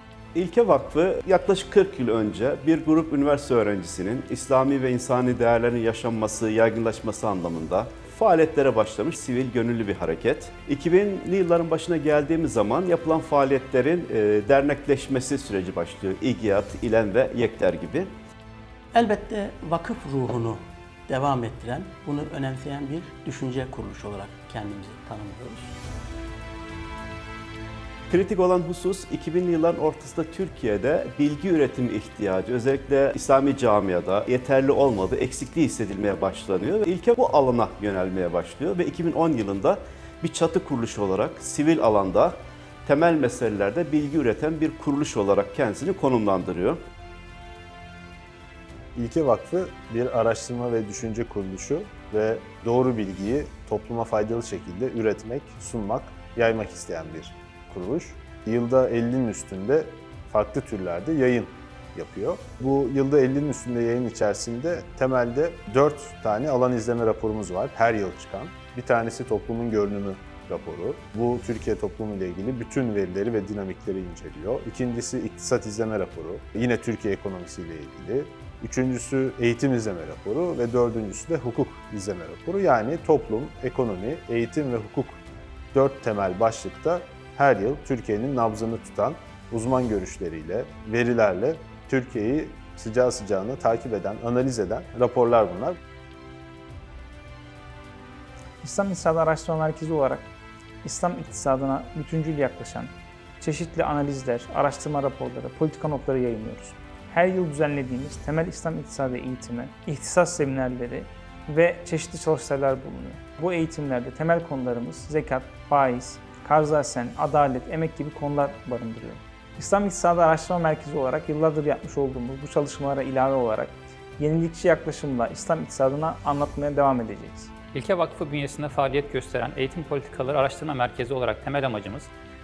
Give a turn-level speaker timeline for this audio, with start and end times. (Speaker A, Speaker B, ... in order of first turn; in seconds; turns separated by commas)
Speaker A: 0.3-18.1, Speaker B: 18.9-25.8, Speaker A: 28.1-46.8, Speaker C: 48.9-85.2, Speaker C: 85.7-95.7, Speaker D: 98.6-100.3, Speaker D: 100.8-127.5, Speaker E: 127.7-132.1